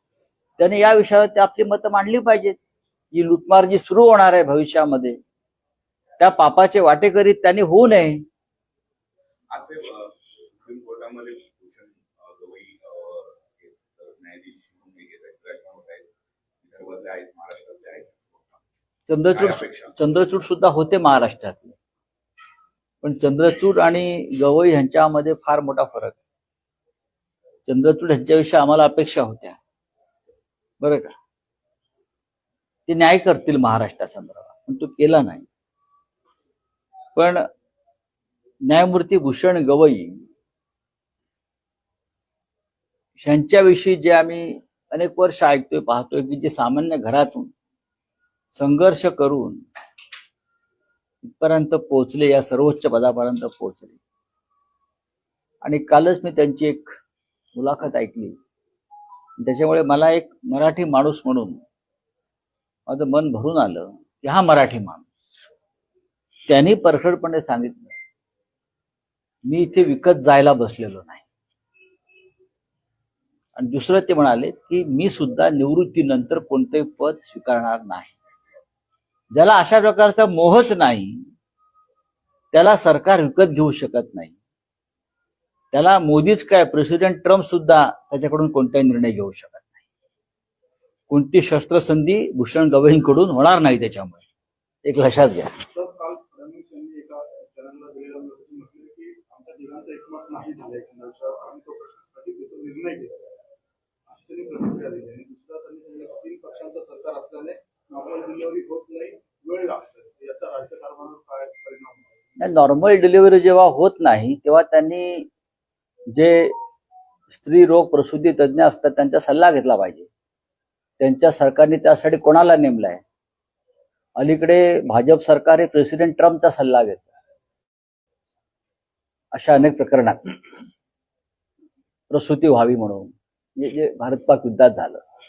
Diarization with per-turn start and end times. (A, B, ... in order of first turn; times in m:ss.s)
0:00.6-0:02.6 A
0:03.1-0:05.2 A
0:06.2-0:08.2 A
0:09.5-0:16.1 B
0:16.6-0:18.6 B
0:19.1-0:21.8 A
0:19.3-0:19.9 B
0:23.0-0:26.2 A
0:27.7-0:29.6 A
0:30.8-0:31.1 A
0:32.9-0:35.5 A
0:37.2-0:37.4 A
0:38.7-0:40.2 A
0:43.2-0:47.5 A
0:48.5-0:49.6 A
0:51.2-0:54.0 A
0:55.6-0:56.9 A
0:57.6-0:58.4 A
0:59.4-1:01.6 A
1:02.9-1:05.2 A
1:06.5-1:08.0 A
1:09.4-1:11.2 A
1:13.6-1:18.2 A
1:19.3-1:21.2 A
1:22.5-1:24.3 A
1:25.7-1:29.8 A
1:31.1-1:34.2 A
1:34.8-1:35.6 A
1:35.7-1:43.3 C
1:44.1-1:52.2 C
1:52.4-1:55.3 A
1:56.1-1:56.6 A
1:57.3-2:00.1 A
2:01.0-2:03.0 A
2:04.2-2:07.1 A
2:09.3-2:10.6 A
2:12.1-2:15.0 A